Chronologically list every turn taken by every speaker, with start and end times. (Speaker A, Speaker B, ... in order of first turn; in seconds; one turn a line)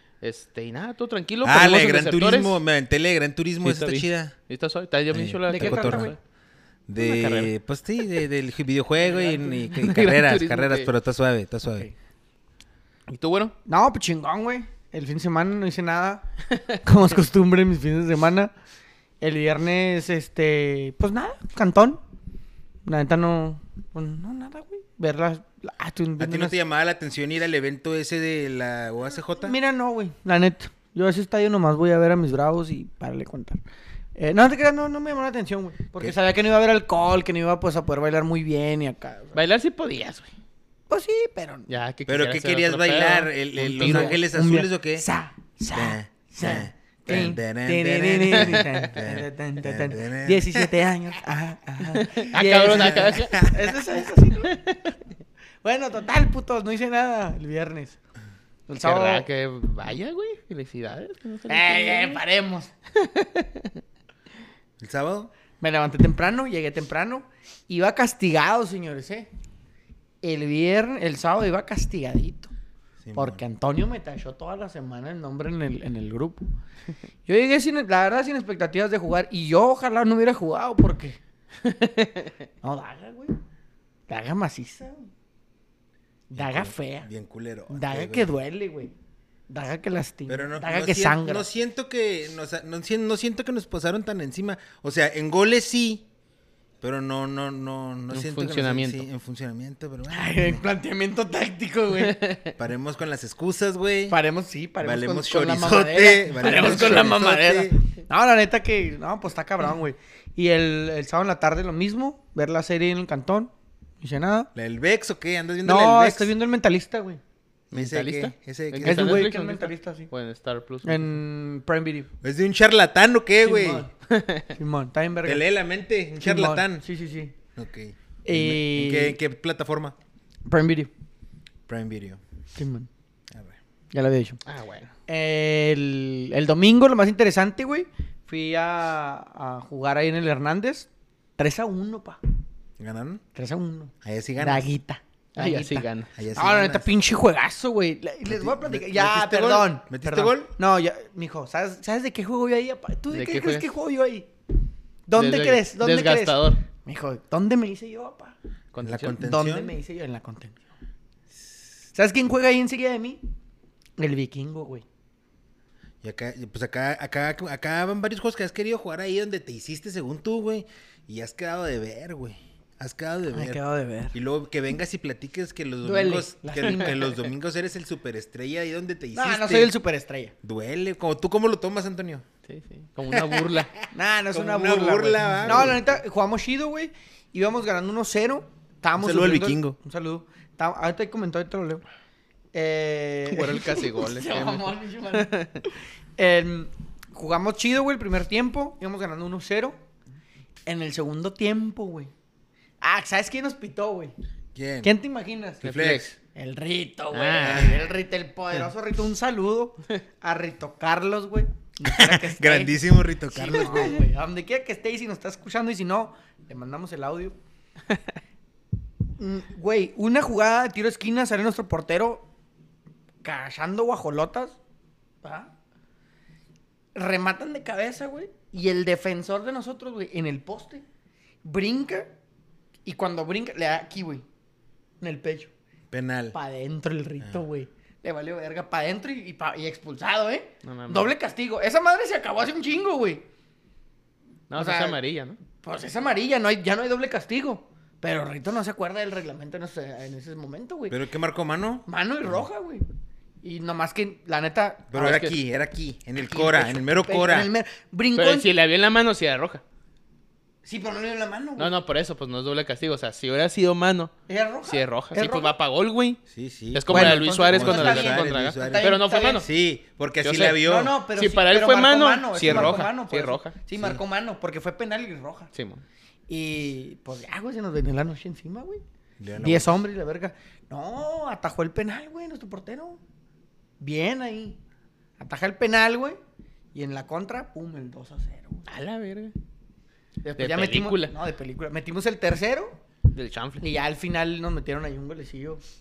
Speaker A: 0.2-2.6
Speaker B: 1.4-4.3
Speaker A: 3.6-6.2
Speaker B: 5.1-6.1
Speaker C: 5.5-6.2
Speaker B: 6.9-11.9
Speaker A: 7.0-7.5
Speaker C: 9.0-9.6
Speaker A: 9.7-10.9
Speaker A: 13.1-13.5
Speaker C: 13.7-16.3
Speaker C: 16.8-18.5
Speaker C: 19.2-22.0
Speaker C: 22.9-26.5
Speaker B: 26.2-29.6
Speaker C: 29.4-33.6
Speaker C: 34.2-39.4
Speaker A: 39.4-40.3
Speaker C: 40.9-41.7
Speaker A: 41.7-44.2
Speaker B: 42.1-45.1
Speaker C: 43.6-54.6
Speaker B: 45.7-50.7
Speaker A: 48.3-48.7
Speaker A: 51.9-53.4
Speaker B: 52.6-53.7
Speaker A: 54.5-54.8
Speaker C: 55.6-58.0
Speaker C: 58.7-59.2
Speaker A: 58.8-62.2
Speaker C: 61.5-62.7
Speaker A: 63.0-63.7
Speaker B: 64.8-65.3
Speaker C: 65.6-69.3
Speaker C: 70.2-72.5
Speaker B: 73.0-73.4
Speaker C: 73.2-76.5
Speaker C: 77.3-81.2
Speaker A: 81.6-82.3
Speaker C: 82.6-83.4
Speaker C: 84.1-85.1
Speaker C: 86.3-87.1
Speaker B: 86.3-88.3
Speaker C: 87.7-88.9
Speaker C: 89.5-91.5
Speaker B: 90.3-96.1
Speaker B: 96.8-100.6
Speaker A: 98.1-99.1
Speaker C: 100.1-102.3
Speaker A: 102.0-102.4
Speaker B: 102.6-104.2
Speaker C: 104.1-114.5
Speaker B: 104.8-107.8
Speaker B: 114.5-116.3
Speaker C: 115.6-117.2
Speaker B: 117.7-119.2
Speaker A: 117.7-121.1
Speaker C: 118.8-120.1
Speaker C: 120.8-122.1
Speaker B: 122.2-123.9
Speaker C: 123.4-123.9
Speaker A: 124.1-124.5
Speaker C: 124.5-125.4
Speaker B: 125.2-126.8
Speaker C: 126.2-127.3
Speaker B: 127.6-129.9
Speaker C: 128.2-129.2
Speaker C: 130.5-130.9
Speaker B: 131.7-132.2
Speaker C: 132.6-132.9
Speaker B: 133.3-133.6
Speaker C: 133.9-134.4
Speaker A: 134.5-134.9
Speaker C: 135.1-142.2
Speaker B: 142.8-143.2
Speaker C: 143.3-154.3
Speaker B: 144.0-144.7
Speaker A: 145.4-146.1
Speaker B: 146.2-146.9
Speaker B: 148.2-150.5
Speaker A: 153.1-153.7
Speaker C: 155.1-158.3
Speaker A: 155.2-156.6
Speaker A: 158.7-159.2
Speaker B: 158.8-159.8
Speaker C: 159.2-160.6
Speaker B: 161.3-161.7
Speaker C: 161.9-163.2
Speaker C: 164.0-164.8
Speaker B: 166.0-173.6
Speaker C: 173.3-174.2
Speaker B: 174.1-179.7
Speaker C: 175.8-177.2
Speaker C: 179.1-180.3
Speaker B: 180.4-182.2
Speaker A: 182.5-183.7
Speaker B: 183.1-183.5
Speaker C: 183.9-191.8
Speaker B: 184.3-185.8
Speaker B: 189.0-189.8
Speaker C: 192.5-199.8
Speaker A: 193.3-195.6
Speaker C: 200.7-202.1
Speaker C: 202.8-204.1
Speaker B: 204.6-204.9
Speaker C: 204.8-205.6
Speaker B: 205.6-206.2
Speaker A: 205.6-206.1
Speaker C: 206.3-217.4
Speaker A: 207.1-207.7
Speaker B: 207.4-207.8
Speaker B: 211.9-214.0
Speaker C: 219.2-222.3
Speaker C: 223.2-224.6
Speaker C: 225.2-225.5
Speaker C: 226.9-230.8
Speaker C: 231.4-232.1
Speaker C: 232.8-234.2
Speaker C: 235.0-235.5
Speaker B: 235.9-236.4
Speaker C: 236.3-243.3
Speaker A: 240.6-241.1
Speaker A: 244.5-245.4
Speaker C: 244.6-245.0
Speaker C: 245.6-251.0
Speaker B: 250.9-252.4
Speaker C: 251.9-252.9
Speaker C: 253.4-255.3
Speaker B: 254.9-257.5
Speaker A: 255.0-255.3
Speaker C: 256.2-258.5
Speaker A: 258.2-259.6
Speaker C: 260.6-261.7
Speaker A: 261.6-264.1
Speaker C: 264.3-265.5
Speaker A: 264.6-266.2
Speaker B: 266.3-270.9
Speaker A: 266.7-269.5
Speaker C: 266.9-269.4
Speaker A: 270.2-273.6
Speaker C: 270.6-275.5
Speaker B: 272.4-272.9
Speaker B: 273.7-274.0
Speaker A: 275.5-275.8
Speaker C: 276.3-278.8
Speaker B: 279.2-279.8
Speaker C: 279.4-283.0
Speaker C: 283.8-284.6
Speaker C: 285.2-286.2
Speaker C: 286.7-288.7
Speaker A: 288.7-289.3
Speaker C: 290.2-292.8
Speaker A: 290.4-291.1
Speaker A: 293.1-293.6
Speaker C: 293.6-295.6